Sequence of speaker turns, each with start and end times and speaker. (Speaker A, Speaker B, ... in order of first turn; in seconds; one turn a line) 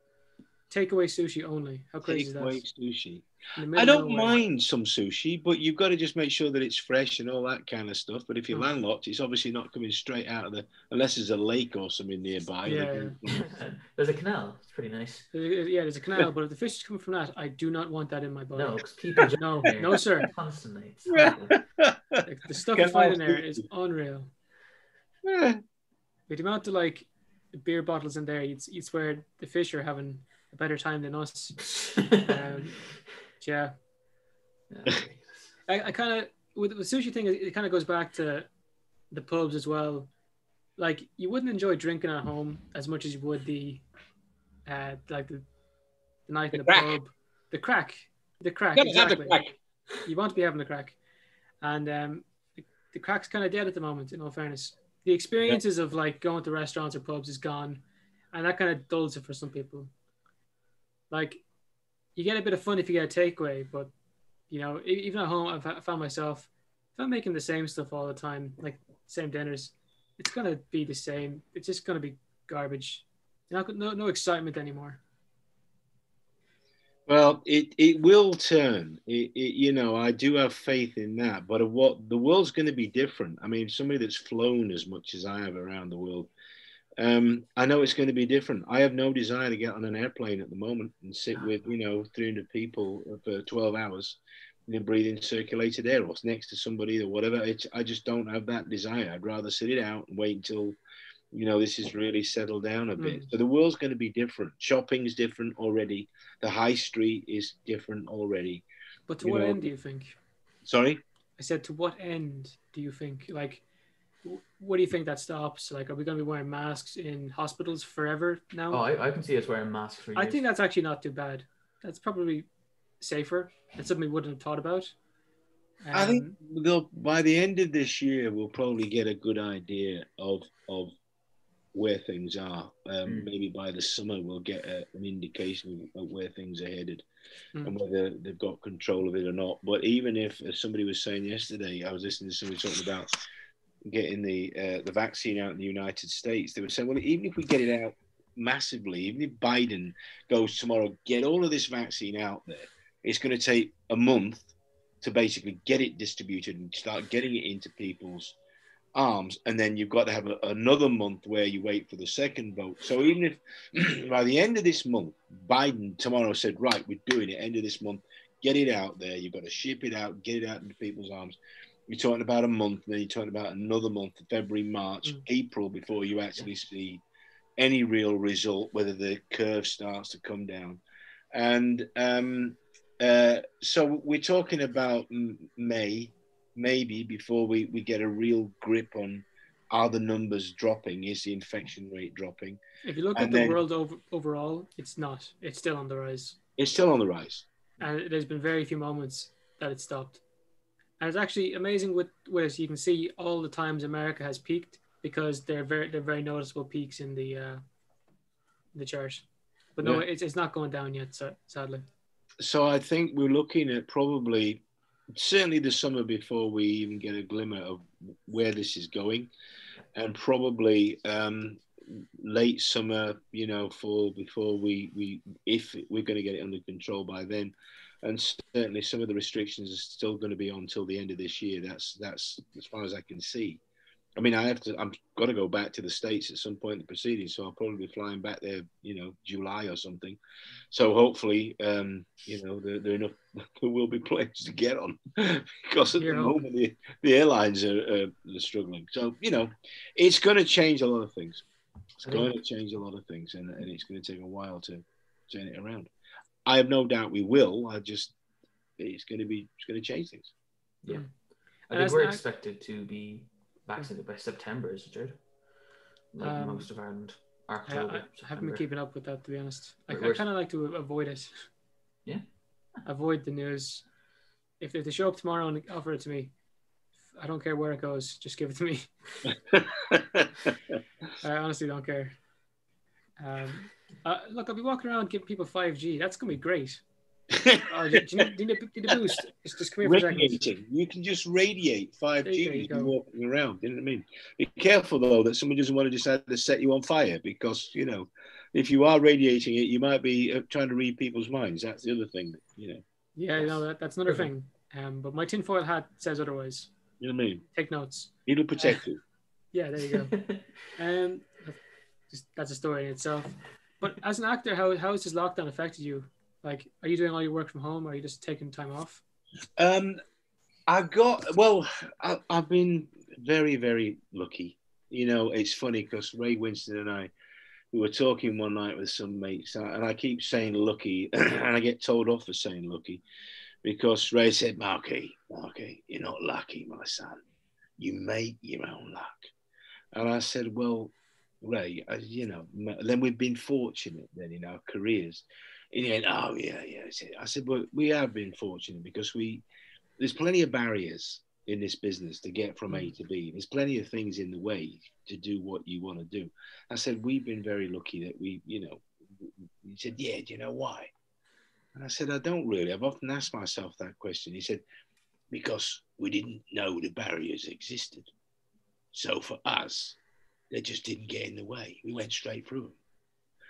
Speaker A: 0.7-2.6
Speaker B: 2.0-13.6
Speaker A: 3.6-4.4
Speaker A: 12.7-13.2
Speaker C: 13.3-15.3
Speaker A: 15.3-20.3
Speaker C: 18.6-21.6
Speaker B: 21.1-23.6
Speaker A: 22.2-24.3
Speaker B: 25.2-25.6
Speaker A: 26.3-33.8
Speaker C: 34.7-35.6
Speaker A: 35.7-38.5
Speaker A: 39.1-40.1
Speaker A: 40.8-43.8
Speaker A: 44.7-45.5
Speaker A: 46.3-49.4
Speaker B: 46.5-47.0
Speaker B: 48.8-49.6
Speaker A: 50.0-51.0
Speaker A: 51.6-59.9
Speaker A: 61.1-61.4
Speaker A: 62.1-63.9
Speaker A: 64.5-75.0
Speaker B: 77.1-86.3
Speaker B: 87.0-100.8
Speaker B: 101.3-108.6
Speaker A: 103.0-103.3
Speaker A: 109.1-110.2
Speaker B: 109.2-109.7
Speaker B: 110.7-111.0
Speaker A: 111.4-113.6
Speaker A: 114.2-118.8
Speaker C: 118.7-120.4
Speaker A: 120.2-122.5
Speaker A: 123.0-124.9
Speaker A: 125.8-126.3
Speaker B: 125.9-130.9
Speaker B: 131.7-137.1
Speaker C: 133.1-133.3
Speaker B: 137.6-143.2
Speaker B: 143.9-154.5
Speaker B: 155.0-158.4
Speaker B: 158.9-177.0
Speaker B: 177.6-180.8
Speaker B: 181.3-192.6
Speaker A: 192.8-196.4
Speaker B: 193.2-193.6
Speaker B: 196.6-197.5
Speaker A: 197.8-200.2
Speaker A: 201.0-207.6
Speaker A: 208.8-211.8
Speaker B: 212.4-214.6
Speaker B: 215.1-219.3
Speaker B: 219.9-233.6
Speaker B: 234.2-240.2
Speaker B: 240.7-251.4
Speaker A: 246.0-246.4
Speaker B: 252.0-255.9
Speaker B: 256.4-258.1
Speaker B: 258.8-260.3
Speaker C: 260.8-265.2
Speaker A: 261.7-262.2
Speaker C: 266.1-268.6
Speaker A: 266.2-266.7
Speaker A: 267.7-271.5
Speaker C: 269.9-270.3
Speaker A: 272.9-273.9
Speaker A: 274.6-276.3
Speaker A: 277.2-279.3
Speaker B: 279.5-280.5
Speaker A: 281.2-282.2
Speaker A: 283.2-286.8
Speaker B: 287.3-288.0
Speaker A: 287.7-290.5
Speaker B: 289.8-302.8
Speaker A: 292.2-292.9
Speaker A: 303.2-306.7
Speaker B: 307.0-307.4
Speaker A: 307.5-308.8
Speaker B: 308.3-309.0
Speaker A: 309.5-319.0
Speaker C: 310.1-310.4
Speaker B: 319.6-320.0
Speaker B: 320.7-327.1
Speaker B: 327.7-333.0
Speaker B: 333.6-337.2
Speaker B: 337.8-339.3
Speaker B: 339.9-349.4
Speaker B: 350.0-360.9
Speaker B: 361.8-364.6
Speaker B: 365.3-368.1
Speaker B: 368.9-370.0
Speaker B: 370.5-372.8